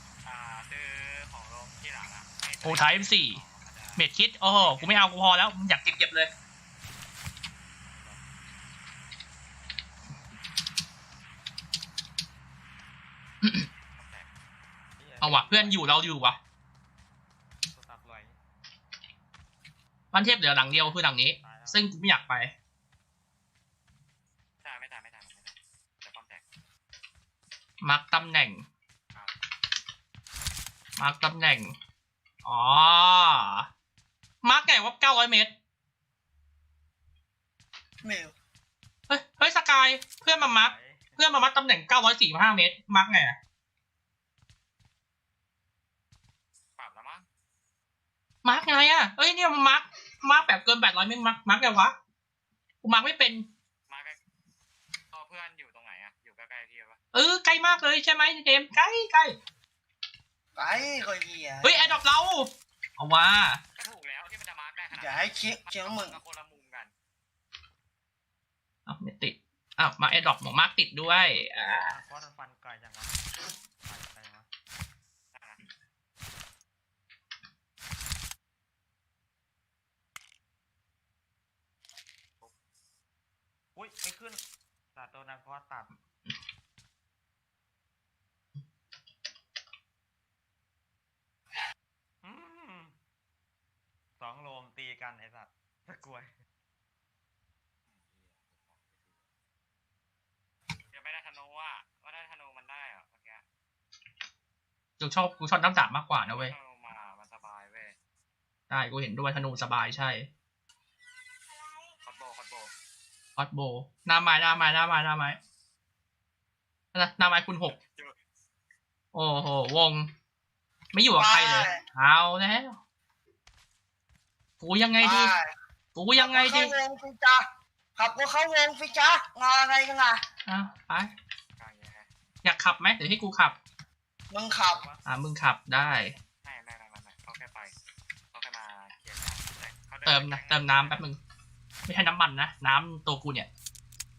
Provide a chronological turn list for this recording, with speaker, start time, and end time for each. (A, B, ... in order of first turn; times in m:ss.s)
0:00.2-0:05.1 A
0:02.6-0:03.4 B
0:04.0-0:06.3 B
0:07.9-0:08.2 C
0:13.9-0:14.3 A
0:15.0-0:16.0 C
0:15.2-0:16.4 B
0:17.7-0:18.4 C
0:20.1-0:22.5 B
0:20.7-0:21.8 C
0:24.6-0:26.4 A
0:27.8-0:28.6 B
0:31.0-0:31.7 B
0:32.4-0:33.7 B
0:34.4-0:35.5 B
0:38.0-0:38.3 D
0:39.1-0:43.4 B
0:40.4-0:41.3 C
0:46.8-0:47.2 A
0:48.4-0:51.9 B
0:52.8-0:53.5 B
0:53.9-0:54.2 A
0:55.1-0:57.0 A
0:57.1-0:59.4 B
1:00.6-1:02.0 D
1:01.6-1:03.6 B
1:03.8-1:06.9 A
1:04.9-1:06.2 D
1:08.8-1:11.9 B
1:11.6-1:13.2 C
1:13.8-1:14.5 C
1:15.3-1:15.6 A
1:23.7-1:24.4 C
1:24.9-1:25.9 C
1:32.2-1:33.0 C
1:34.2-1:36.3 C
1:37.9-1:39.2 A
1:40.9-1:43.4 A
1:45.0-1:46.5 B
1:46.2-1:47.9 A
1:48.7-1:50.3 B
1:52.0-1:52.7 A
1:53.4-1:55.4 B
1:56.9-1:57.8 B
1:57.7-1:58.2 A
1:59.1-2:00.1 B
2:00.9-2:02.8 B
2:01.1-2:01.8 D
2:04.6-2:05.3 B
2:05.0-2:05.5 D
2:05.9-2:06.7 B
2:06.2-2:07.4 D
2:08.0-2:10.2 D
2:10.4-2:11.1 B
2:11.6-2:12.1 A
2:12.4-2:13.5 B
2:14.3-2:14.8 D
2:14.5-2:15.1 C
2:15.0-2:16.1 B
2:16.4-2:17.7 A
2:18.3-2:21.0 A
2:20.0-2:21.2 B
2:21.9-2:23.5 B